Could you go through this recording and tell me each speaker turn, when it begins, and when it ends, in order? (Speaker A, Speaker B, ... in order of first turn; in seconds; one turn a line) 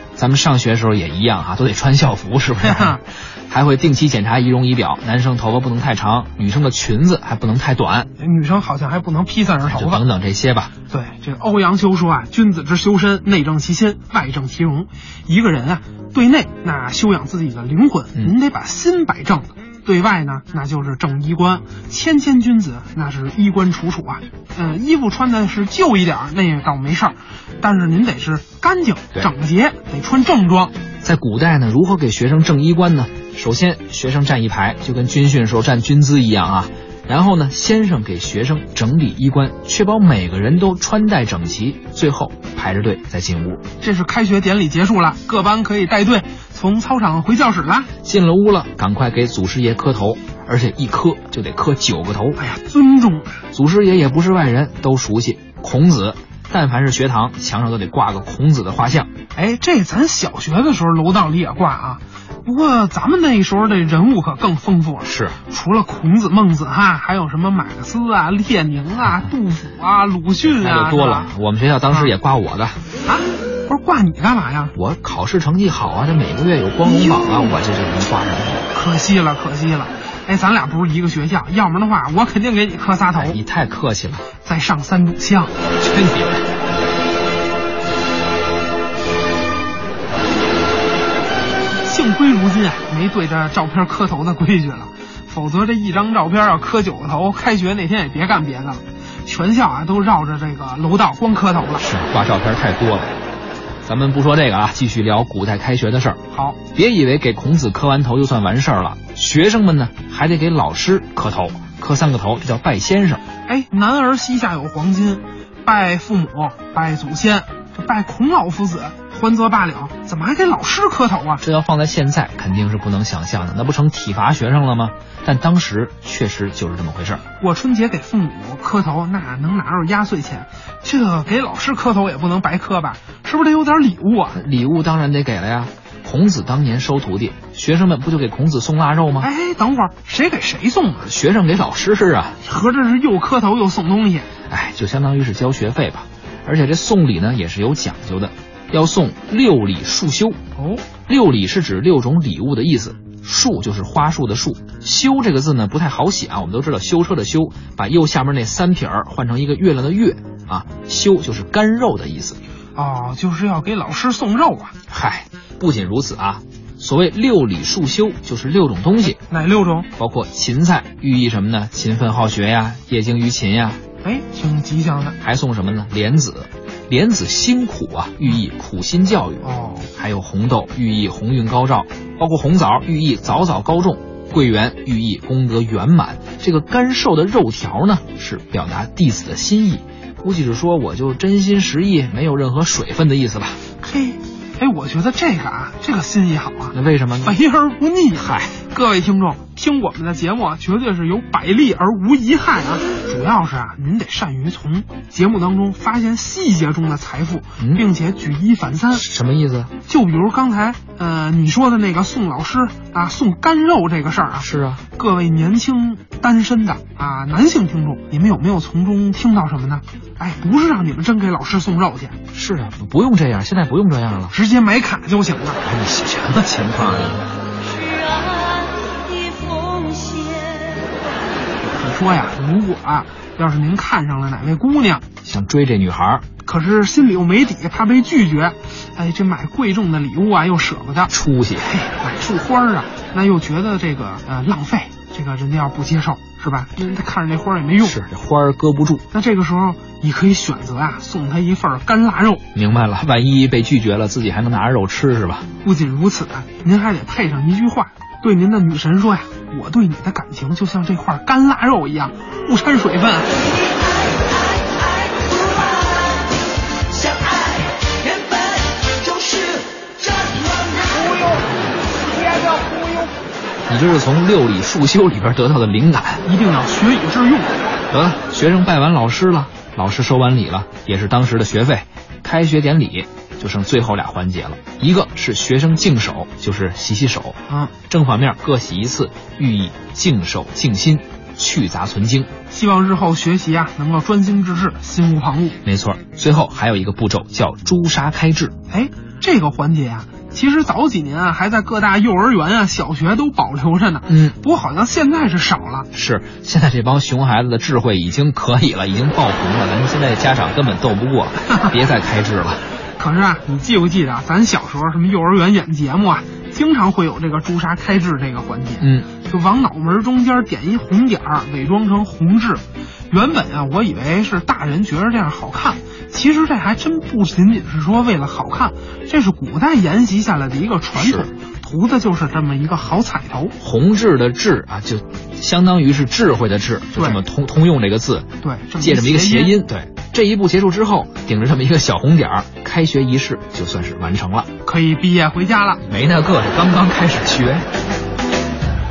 Speaker A: 0.1-8.1
Speaker B: 2.6-3.0
Speaker B: 8.2-10.0
Speaker A: 9.7-10.7
Speaker B: 10.9-30.7
Speaker A: 31.0-43.6
Speaker B: 43.8-47.9
Speaker A: 48.0-52.4
Speaker B: 52.4-53.4
Speaker A: 53.5-59.1
Speaker B: 59.3-71.3
Speaker A: 65.0-65.4
Speaker A: 70.5-72.8
Speaker B: 73.0-74.7
Speaker A: 74.7-78.7
Speaker B: 76.8-77.5
Speaker B: 78.7-83.4
Speaker A: 83.2-84.2
Speaker B: 84.4-85.5
Speaker A: 85.8-86.5
Speaker B: 91.8-101.8
Speaker A: 101.8-103.2
Speaker A: 103.8-106.2
Speaker B: 106.3-106.6
Speaker A: 106.7-113.2
Speaker B: 113.4-121.4
Speaker A: 121.4-127.2
Speaker B: 127.4-134.4
Speaker A: 134.3-139.3
Speaker B: 139.2-141.1
Speaker A: 141.0-142.4
Speaker B: 142.4-144.3
Speaker A: 144.5-150.4
Speaker B: 150.6-150.8
Speaker A: 151.1-162.4
Speaker B: 162.8-164.7
Speaker A: 164.9-169.2
Speaker B: 169.2-169.9
Speaker A: 170.0-173.8
Speaker B: 174.0-175.2
Speaker A: 175.2-193.6
Speaker B: 179.4-179.9
Speaker B: 193.8-209.0
Speaker A: 196.7-197.3
Speaker A: 198.2-198.5
Speaker A: 207.6-207.8
Speaker A: 208.9-209.7
Speaker B: 209.9-222.2
Speaker A: 214.4-214.8
Speaker A: 222.3-224.3
Speaker B: 224.3-225.6
Speaker A: 225.6-227.3
Speaker C: 227.6-230.9
Speaker B: 231.6-235.0
Speaker A: 235.2-236.2
Speaker B: 236.4-241.1
Speaker A: 241.1-241.7
Speaker B: 241.6-248.0
Speaker A: 247.8-249.0
Speaker B: 249.1-252.4
Speaker A: 252.5-255.5
Speaker B: 255.6-263.4
Speaker C: 265.2-265.9
Speaker C: 267.0-267.3
Speaker C: 269.0-269.6
Speaker A: 273.7-276.2
Speaker B: 276.2-277.5
Speaker A: 277.9-292.3
Speaker B: 292.5-295.6
Speaker A: 295.6-298.5
Speaker B: 298.7-305.9
Speaker A: 304.1-304.4
Speaker A: 305.9-312.6
Speaker B: 311.5-311.7
Speaker B: 313.0-333.5
Speaker A: 318.8-319.1
Speaker A: 330.9-331.3
Speaker A: 333.6-344.5
Speaker B: 336.9-337.2
Speaker B: 338.4-339.6
Speaker B: 344.6-345.8
Speaker A: 345.8-347.7